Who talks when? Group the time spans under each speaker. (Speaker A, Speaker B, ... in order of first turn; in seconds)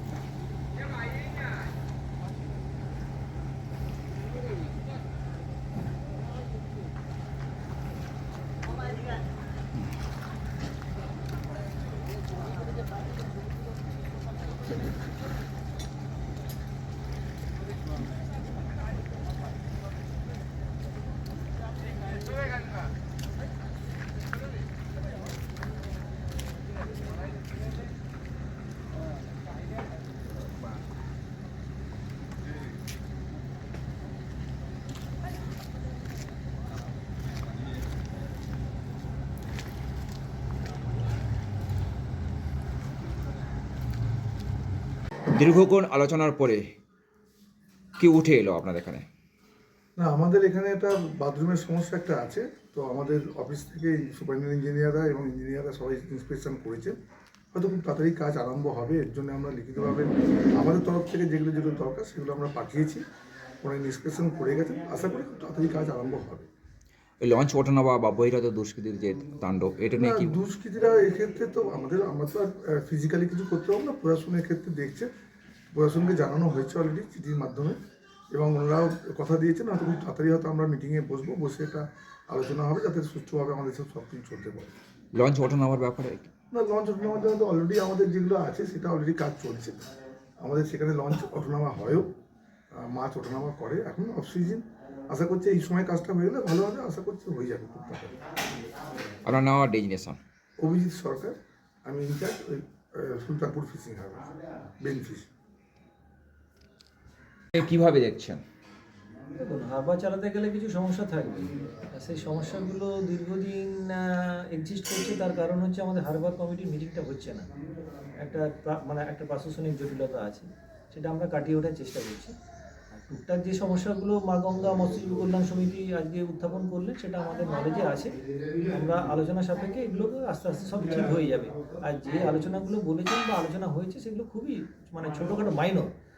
Speaker A: 45.3-46.6, 48.0-49.0, 67.2-70.4, 85.1-86.3, 99.2-100.2, 107.5-108.4
Speaker B: 50.0-57.0, 57.5-63.0, 63.6-66.5, 70.0-75.1, 75.7-77.8, 78.3-84.7, 86.5-89.8, 90.4-92.1, 92.7-98.1, 100.6-104.3, 104.8-105.3
Speaker C: 109.4-117.4, 118.2-122.3, 123.0-128.2, 128.7-135.9